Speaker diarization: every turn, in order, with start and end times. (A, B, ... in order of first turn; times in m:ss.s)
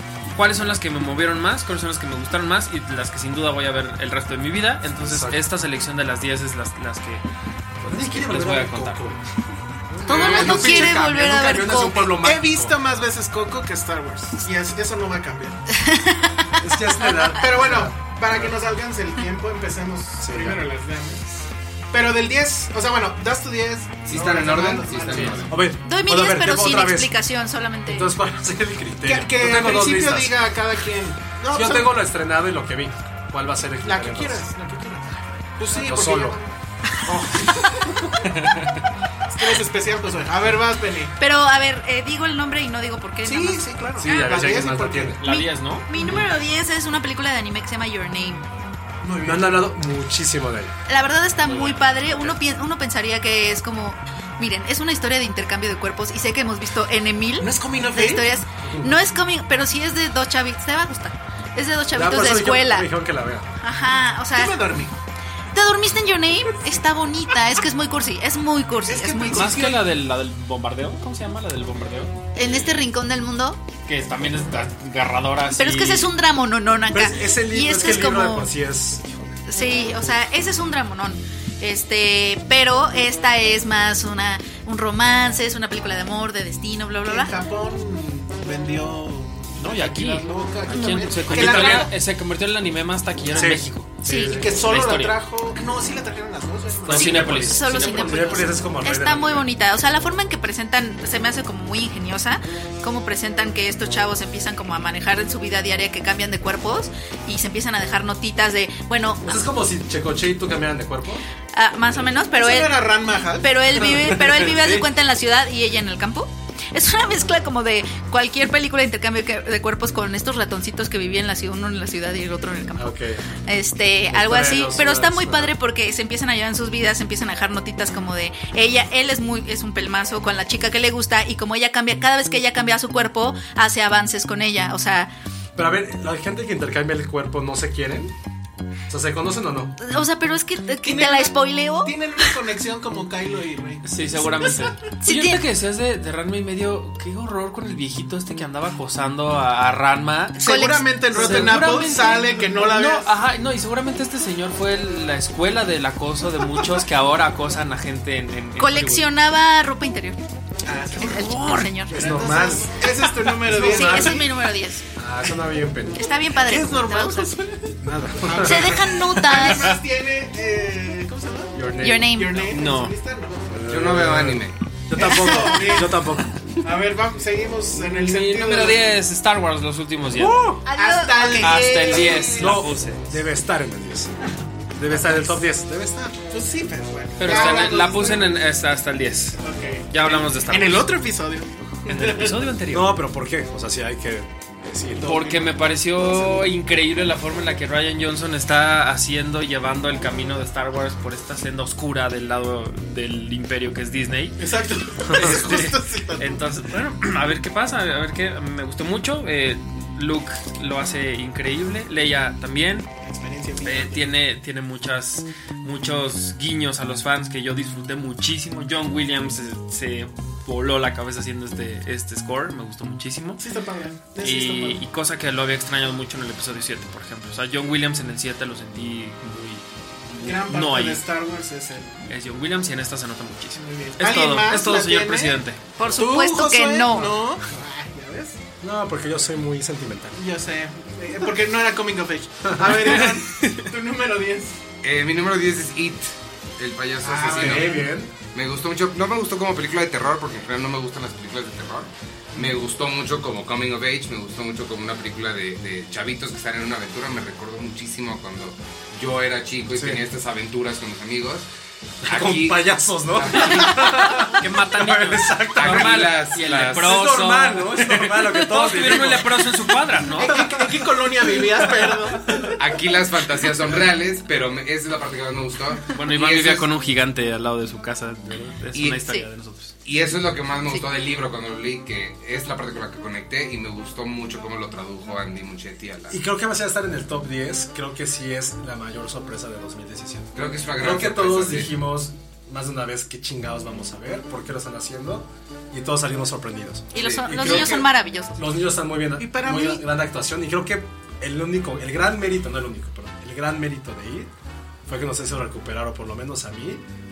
0:00.3-0:07.2 A
0:05.0-0:05.4 B
0:07.8-0:09.1 A
0:07.9-0:09.2 B
0:09.9-0:12.8 B
0:10.1-0:11.0 C
0:10.1-0:12.1 D
0:12.2-0:15.6 C
0:15.7-0:17.3 D
0:16.6-0:18.6 B
0:17.4-0:21.2 C
0:20.2-0:20.6 B
0:21.9-0:25.5 C
0:24.0-0:25.6 E
0:25.5-0:27.1 B
0:25.8-0:28.1 D
0:27.9-0:30.4 B
0:29.0-0:31.9 C
0:31.5-0:34.5 B
0:33.8-0:36.5 C
0:35.6-0:36.4 B
0:37.1-0:37.6 B
0:37.8-0:38.2 C
0:38.3-0:38.7 A
0:39.3-0:41.1 C
0:41.2-0:44.6 D
0:43.2-0:45.2 C
0:44.0-0:45.2 B
0:45.2-0:45.9 A
0:45.2-0:48.5 D
0:49.0-0:49.6 C
0:49.2-0:50.8 B
0:50.9-1:02.9 D
0:51.4-0:52.3 A
0:57.4-0:58.3 C
0:58.6-0:59.0 B
1:01.9-1:03.5 B
1:03.6-1:04.6 D
1:04.3-1:05.0 C
1:05.5-1:09.6 D
1:08.9-1:09.8 C
1:09.3-1:12.2 A
1:12.4-1:13.6 D
1:13.9-1:16.1 A
1:15.6-1:18.5 D
1:16.9-1:19.5 B
1:19.5-1:27.3 D
1:27.0-1:31.9 C
1:29.6-1:33.9 A
1:31.3-1:31.9 B
1:33.3-1:34.7 B
1:34.0-1:34.4 D
1:34.3-1:38.2 C
1:34.6-1:35.2 A
1:36.8-1:39.5 B
1:36.9-1:37.6 A
1:37.0-1:49.3 D
1:49.2-1:51.2 B
1:51.5-1:52.8 D
1:52.3-1:54.2 C
1:53.4-2:15.1 D
1:53.8-1:54.9 B
2:02.8-2:03.4 B
2:04.1-2:05.5 B
2:15.6-2:18.2 B
2:18.9-2:19.8 B
2:19.8-2:21.9 D
2:20.8-2:24.8 C
2:23.8-2:30.4 A
2:25.0-2:25.4 D
2:30.4-2:33.1 C
2:30.4-2:32.3 D
2:31.1-2:39.1 A
2:38.6-2:40.2 D
2:40.6-2:44.2 C
2:41.0-2:42.0 D
2:41.9-2:42.8 B
2:43.4-2:44.2 B
2:43.6-2:44.8 D
2:45.0-2:46.1 B
2:46.0-2:47.3 D
2:46.3-2:53.6 C
2:47.8-2:48.8 B
2:48.3-2:49.7 D
2:51.5-2:52.2 B
2:51.8-2:52.4 D
2:52.5-2:52.9 A
2:53.5-2:56.6 B
2:53.7-2:54.6 E
2:54.9-2:56.1 C
2:56.6-2:58.9 C
2:57.8-3:00.4 A
3:00.2-3:00.6 B
3:00.4-3:02.7 C
3:00.6-3:01.6 D
3:01.4-3:03.0 A
3:02.4-3:04.2 B
3:04.8-3:06.2 B
3:04.8-3:05.4 C
3:06.3-3:08.3 C
3:07.2-3:10.9 A
3:09.4-3:12.4 C
3:11.9-3:13.0 A
3:12.7-3:15.2 B
3:15.0-3:16.4 C
3:15.0-3:24.4 A
3:24.4-3:26.5 C
3:25.1-3:32.9 A
3:25.1-3:25.4 B
3:33.0-3:34.1 C
3:33.6-3:43.4 A
3:43.4-3:44.8 C
3:44.2-3:51.1 A
3:50.2-3:52.0 C
3:52.1-3:55.6 A
3:53.6-3:58.4 C
3:55.8-3:57.1 D
3:58.6-4:00.2 B
4:00.2-4:04.6 C
4:02.4-4:03.0 B
4:02.9-4:03.6 A
4:04.8-4:07.8 E
4:07.0-4:07.9 C
4:07.3-4:08.1 B
4:08.3-4:21.5 E
4:19.7-4:20.0 B
4:22.1-4:26.2 B
4:22.1-4:23.8 E
4:23.6-4:30.5 A
4:25.6-4:26.9 E
4:26.7-4:30.7 B
4:30.2-4:32.4 C
4:31.3-4:32.6 B
4:32.6-4:36.7 E
4:35.9-4:39.7 A
4:38.7-4:39.1 E
4:39.8-4:46.2 E
4:46.1-5:04.3 B
4:50.4-4:51.7 E
4:56.9-4:58.4 D
4:57.3-4:57.8 E
4:59.2-4:59.8 C
5:04.9-5:06.8 B